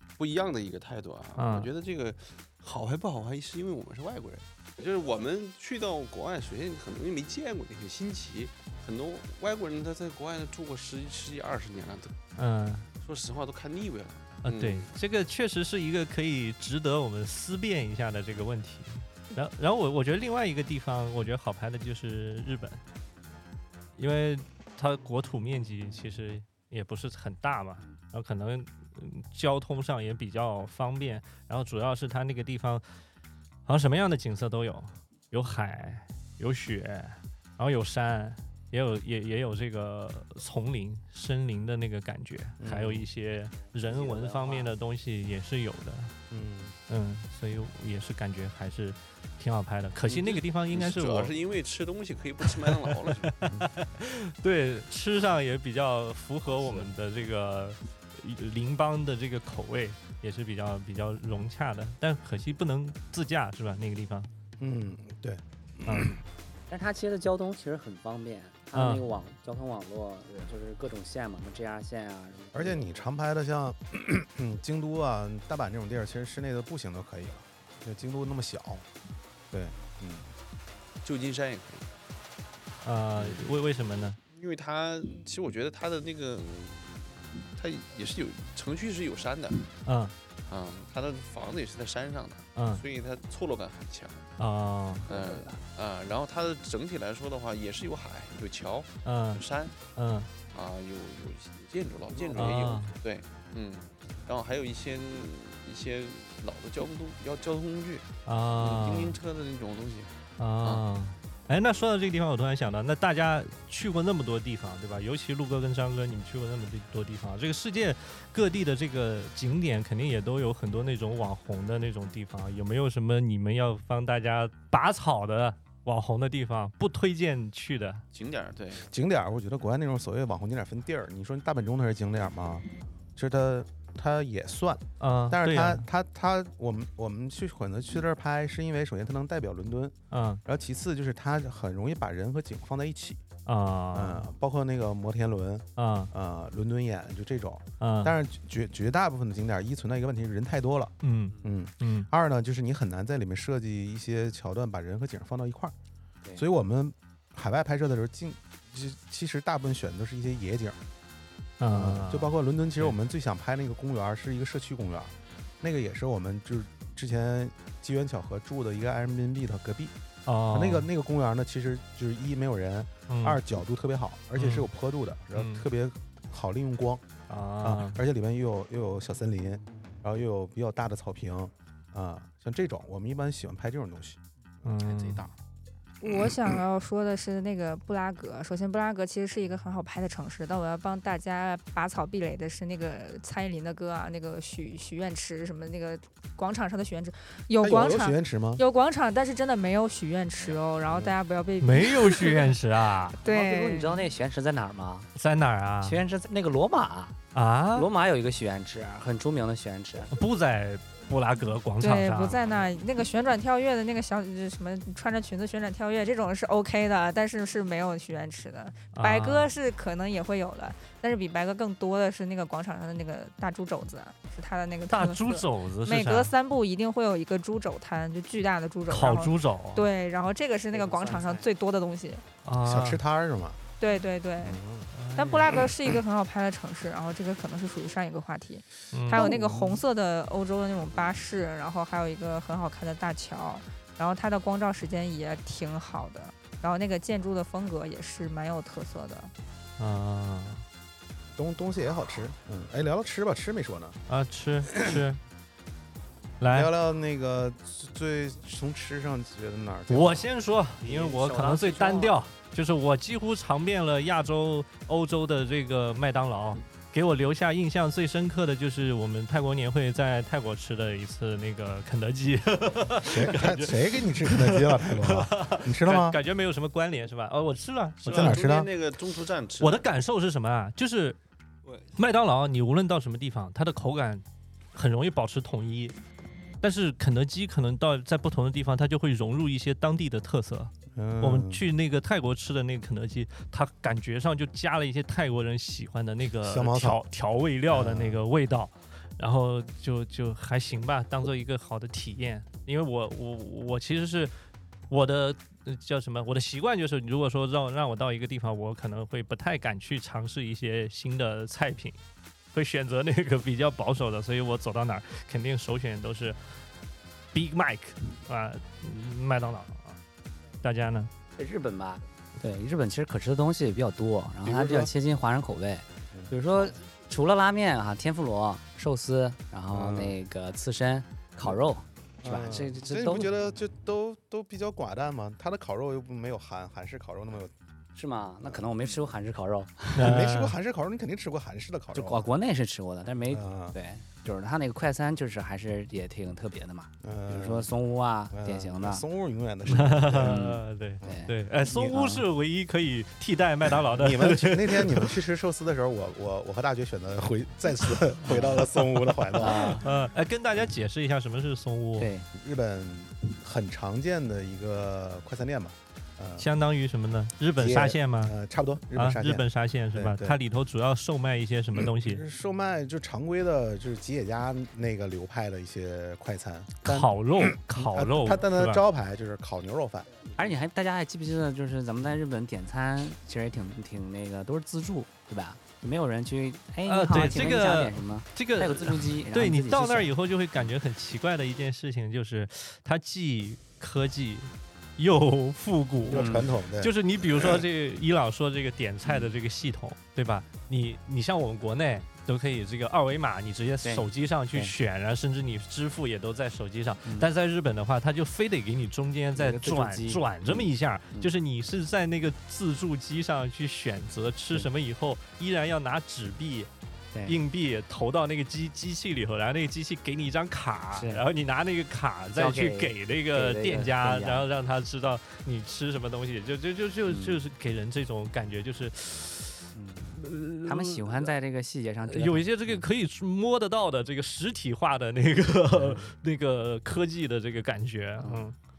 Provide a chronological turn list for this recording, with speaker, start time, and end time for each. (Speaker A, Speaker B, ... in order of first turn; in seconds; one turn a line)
Speaker A: 0.2-12.2
Speaker B: 1.4-1.7
Speaker B: 12.3-12.9
Speaker A: 13.0-14.9
Speaker B: 14.4-22.8
Speaker B: 23.9-32.8
Speaker B: 33.6-46.1
Speaker C: 42.6-43.1
Speaker D: 43.9-44.7
Speaker C: 46.3-46.7
Speaker B: 46.9-51.3
Speaker A: 50.0-53.3
Speaker B: 52.5-64.3
Speaker A: 56.5-56.9
Speaker C: 64.6-66.2
Speaker B: 65.8-66.2
Speaker D: 66.7-73.0
Speaker B: 68.7-69.0
Speaker C: 72.5-78.9
Speaker C: 79.5-80.3
Speaker A: 81.0-81.9
Speaker B: 82.8-84.2
Speaker A: 83.2-83.4
Speaker A: 84.3-89.7
Speaker B: 89.8-90.1
Speaker A: 90.5-94.3
Speaker B: 92.5-92.8
Speaker B: 94.4-95.1
Speaker D: 95.1-95.6
Speaker A: 95.1-99.8
Speaker B: 99.0-99.4
Speaker B: 99.9-100.3
Speaker A: 100.5-110.1
Speaker D: 102.2-102.4
Speaker B: 102.3-102.9
Speaker B: 108.2-109.2
Speaker B: 110.4-128.0
Speaker A: 128.1-128.9
Speaker C: 128.8-143.2
Speaker B: 135.0-135.8
Speaker B: 140.1-140.4
Speaker B: 143.4-144.3
Speaker C: 143.9-155.7
Speaker B: 145.8-146.1
Speaker B: 147.8-148.1
Speaker B: 151.0-152.1
Speaker C: 156.3-160.8
Speaker B: 161.6-162.9
Speaker C: 161.7-169.9
Speaker B: 170.2-170.9
Speaker C: 170.5-177.0
Speaker B: 173.1-173.4
Speaker B: 174.4-174.7
Speaker B: 175.3-175.7
Speaker B: 177.3-178.0
Speaker C: 177.6-184.2
Speaker B: 184.6-185.3
Speaker E: 186.0-202.5
Speaker C: 197.6-198.6
Speaker C: 200.9-201.1
Speaker B: 201.6-203.2
Speaker E: 203.2-204.0
Speaker D: 203.2-205.1
Speaker B: 205.1-206.0
Speaker D: 205.8-207.2
Speaker B: 207.3-207.9
Speaker D: 207.7-210.1
Speaker B: 210.1-212.4
Speaker E: 211.8-232.2
Speaker B: 218.9-219.5
Speaker B: 224.9-226.3
Speaker B: 228.9-229.8
Speaker D: 230.7-231.5
Speaker B: 232.4-233.0
Speaker C: 232.6-233.6
Speaker E: 233.8-234.6
Speaker C: 234.4-234.9
Speaker B: 234.9-235.5
Speaker E: 235.1-249.3
Speaker B: 238.9-239.3
Speaker C: 239.2-239.7
Speaker B: 249.8-250.6
Speaker C: 251.3-254.0
Speaker B: 254.1-255.2
Speaker C: 254.7-255.0
Speaker B: 256.4-256.7
Speaker C: 256.5-260.2
Speaker B: 259.9-278.4
Speaker D: 260.8-262.1
Speaker C: 273.0-276.2
Speaker A: 278.0-279.9
Speaker C: 278.1-278.7
Speaker B: 279.6-281.2
Speaker B: 281.9-285.9
Speaker B: 286.6-304.3
Speaker C: 290.9-291.6
Speaker C: 296.4-297.0
Speaker C: 297.7-298.2
Speaker B: 304.9-312.0
Speaker B: 312.5-316.4
Speaker B: 317.3-320.0
Speaker B: 320.6-321.1
Speaker D: 321.4-333.3
Speaker C: 324.4-324.9
Speaker C: 326.1-326.7
Speaker C: 329.7-330.2
Speaker C: 332.2-337.5
Speaker D: 337.9-340.2
Speaker C: 338.4-339.0
Speaker B: 339.9-340.5
Speaker C: 340.0-342.3
Speaker D: 341.9-349.0
Speaker C: 343.3-343.8
Speaker C: 347.0-347.7
Speaker C: 348.3-351.3
Speaker B: 349.7-355.1
Speaker D: 350.2-352.2
Speaker C: 353.8-359.9
Speaker D: 358.2-358.7
Speaker D: 359.3-359.9
Speaker B: 359.4-362.1
Speaker D: 362.0-362.3
Speaker C: 362.3-366.5
Speaker B: 366.4-368.3
Speaker C: 367.6-370.4
Speaker B: 368.9-372.2
Speaker C: 371.7-380.1
Speaker B: 376.8-378.8
Speaker D: 380.4-390.1
Speaker B: 386.9-416.7
Speaker C: 396.1-397.6
Speaker D: 396.1-396.5
Speaker D: 403.8-404.7
Speaker D: 409.4-411.3
Speaker D: 417.1-417.4
Speaker B: 417.2-431.3
Speaker D: 420.9-421.3
Speaker D: 422.3-424.5
Speaker D: 427.1-427.4
Speaker D: 429.7-432.8
Speaker B: 432.1-438.6
Speaker D: 438.2-438.4